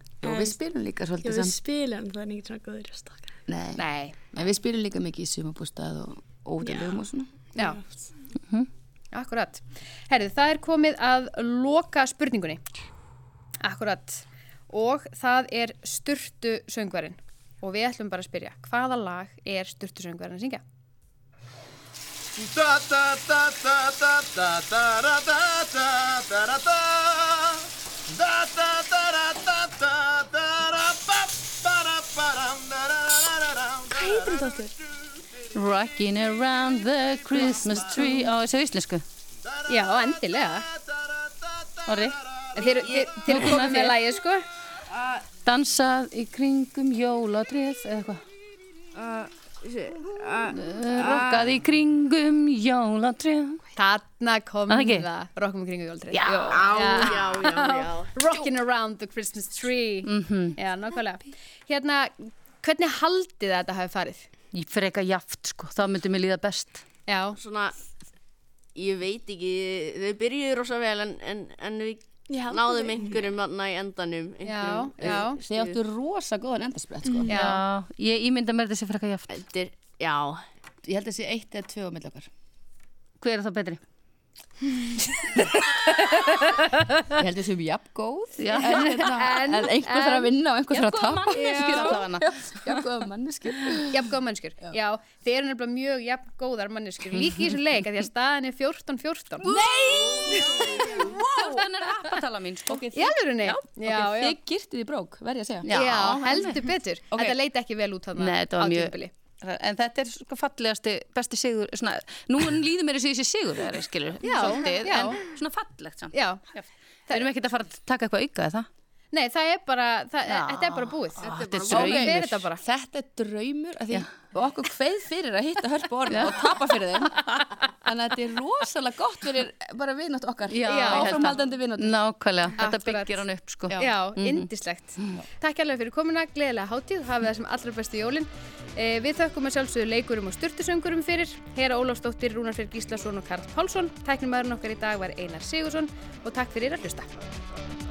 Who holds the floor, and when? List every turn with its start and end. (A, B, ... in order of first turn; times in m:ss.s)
0:00.2-0:01.6 A
0:00.2-0:00.6 B
0:01.2-0:03.3 B
0:03.5-0:07.3 A
0:03.7-0:04.2 C
0:07.5-0:07.8 C
0:09.1-0:12.6 C
0:13.6-0:20.6 C
0:22.4-0:34.4 D
0:33.9-0:34.7 B
0:35.5-0:39.0 E
0:38.0-0:38.3 B
0:39.7-0:40.6 C
0:41.8-0:42.2 E
0:42.5-0:44.4 C
0:42.8-0:43.1 F
0:43.2-0:43.9 E
0:44.9-0:45.2 F
0:45.4-0:48.2 E
0:49.0-0:51.4 F
0:50.5-0:53.6 E
0:53.8-1:04.2 C
0:54.7-0:55.0 E
0:56.1-0:56.9 E
0:56.5-0:58.1 F
1:00.0-1:00.5 E
1:04.5-1:06.8 E
1:07.1-1:07.4 C
1:07.4-1:07.7 F
1:08.7-1:15.8 F
1:12.3-1:13.4 B
1:14.4-1:15.4 C
1:15.0-1:17.3 A
1:17.2-1:17.6 C
1:17.3-1:19.3 E
1:19.3-1:20.4 F
1:20.8-1:22.3 A
1:23.2-1:23.8 E
1:26.1-1:26.9 C
1:27.2-1:34.1 A
1:28.4-1:29.1 E
1:28.6-1:30.3 C
1:30.7-1:32.3 E
1:31.3-1:32.0 C
1:33.9-1:39.6 C
1:39.4-1:41.9 A
1:40.4-1:40.8 C
1:41.2-1:42.8 E
1:42.7-1:45.8 A
1:42.9-1:44.4 C
1:45.6-1:46.7 E
1:45.7-1:49.1 C
1:47.1-1:47.4 A
1:48.2-1:58.7 E
1:54.2-1:55.2 C
1:56.1-1:56.4 C
1:59.1-2:02.6 C
2:00.2-2:02.4 E
2:01.2-2:12.0 A
2:01.4-2:01.8 F
2:06.1-2:07.4 E
2:10.5-2:14.5 E
2:10.6-2:11.3 C
2:12.6-2:13.2 C
2:13.8-2:27.1 C